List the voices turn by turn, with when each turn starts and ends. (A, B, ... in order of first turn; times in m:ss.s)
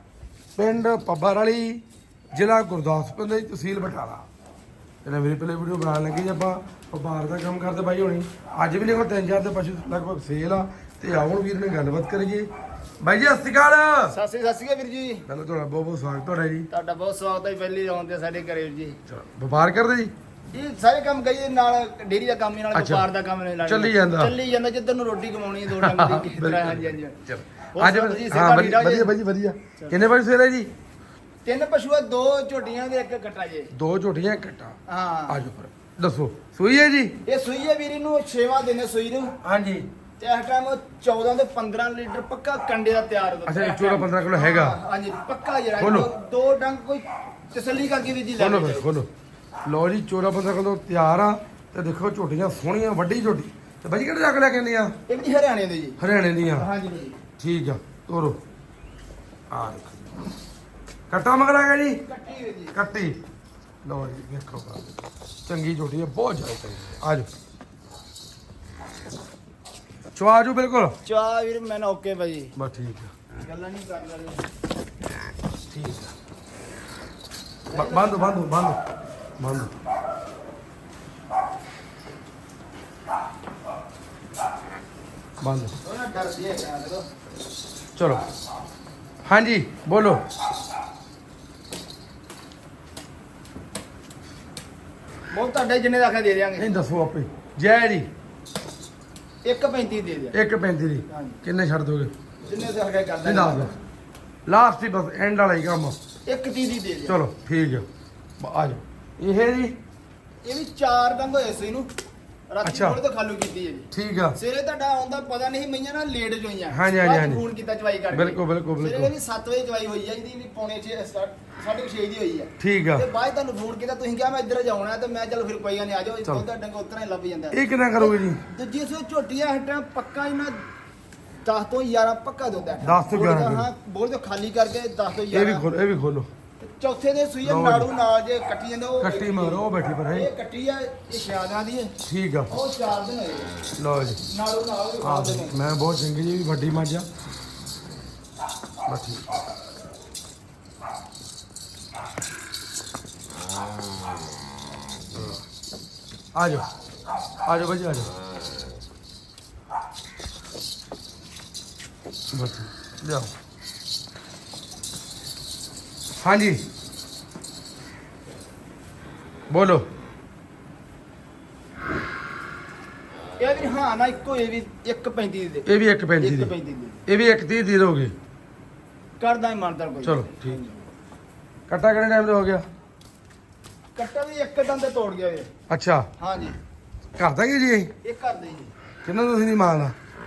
0:00.6-0:04.3 A
0:05.0-0:12.5 A
0:13.0-0:14.2 A
0:14.1-0:15.3 B
0:15.3-0:16.7 A
0:16.7-0:19.0 B
0:19.1-0:20.1 A
0:20.5-0:27.2 B
0:22.7-0:23.1 A
0:23.6-0:24.3 A
0:25.7-0:30.7 A
0:27.7-0:29.2 B
0:29.8-0:30.0 B
0:31.4-0:33.7 B
0:33.7-0:34.8 A
0:34.9-0:35.4 B
0:35.3-0:37.2 A
0:37.2-0:39.3 B
0:39.4-0:39.9 A
0:40.2-0:48.9 B
0:43.5-0:44.8 A
0:45.8-0:46.1 A
0:48.4-0:49.1 A
0:49.6-0:54.9 A
0:55.1-0:56.0 B
0:56.0-0:56.7 A
0:56.6-0:57.2 B
0:57.4-0:58.4 A
0:59.5-1:00.1 A
1:01.1-1:02.0 A
1:02.0-1:02.8 B
1:02.7-1:03.2 A
1:03.8-1:04.9 A
1:05.5-1:07.3 A
1:10.2-1:11.0 A
1:11.0-1:12.5 B
1:12.6-1:13.1 A
1:13.4-1:14.4 B
1:15.7-1:16.1 A
1:17.7-1:18.5 B
1:17.7-1:18.8 A
1:19.4-1:19.7 A
1:25.4-1:25.7 A
1:25.8-1:27.1 B
1:28.0-1:28.2 A
1:29.2-1:30.2 A
1:35.3-1:36.7 B
1:36.6-1:38.1 A
1:39.4-1:40.4 B
1:40.3-1:42.1 A
1:41.1-1:41.4 B
1:42.4-1:43.8 B
1:43.2-1:43.7 A
1:44.5-1:46.0 A
1:46.3-1:47.2 B
1:47.1-1:47.8 A
1:48.4-1:49.8 A
1:50.4-1:51.9 B
1:52.5-2:10.6 B
1:52.6-1:53.0 A
1:53.9-1:54.4 A
1:56.7-1:57.4 A
1:58.1-1:59.1 A
2:02.6-2:03.1 A
2:07.5-2:08.4 A
2:11.4-2:15.7 B
2:12.8-2:13.7 A
2:15.3-2:16.3 A
2:16.6-2:21.9 B
2:17.4-2:17.9 A
2:19.0-2:20.3 A
2:22.1-2:22.5 A
2:22.5-2:23.5 B
2:23.8-2:24.2 A
2:24.3-2:25.6 B
2:25.0-2:27.1 A
2:28.9-2:29.2 A
2:35.2-2:35.4 A
2:36.4-2:36.7 A
2:37.5-2:38.1 A
2:42.3-2:43.3 A
2:46.2-2:46.6 A
2:49.5-2:49.9 A
2:53.4-2:55.7 B
2:55.7-2:56.5 A
2:56.2-2:57.0 B
2:57.1-2:58.1 A
2:59.2-3:00.9 B
3:00.0-3:00.6 A
3:01.7-3:02.6 A
3:04.0-3:05.5 B
3:05.7-3:06.1 A
3:06.2-3:06.6 B
3:07.2-3:07.9 A
3:08.0-3:08.7 B
3:09.0-3:10.0 A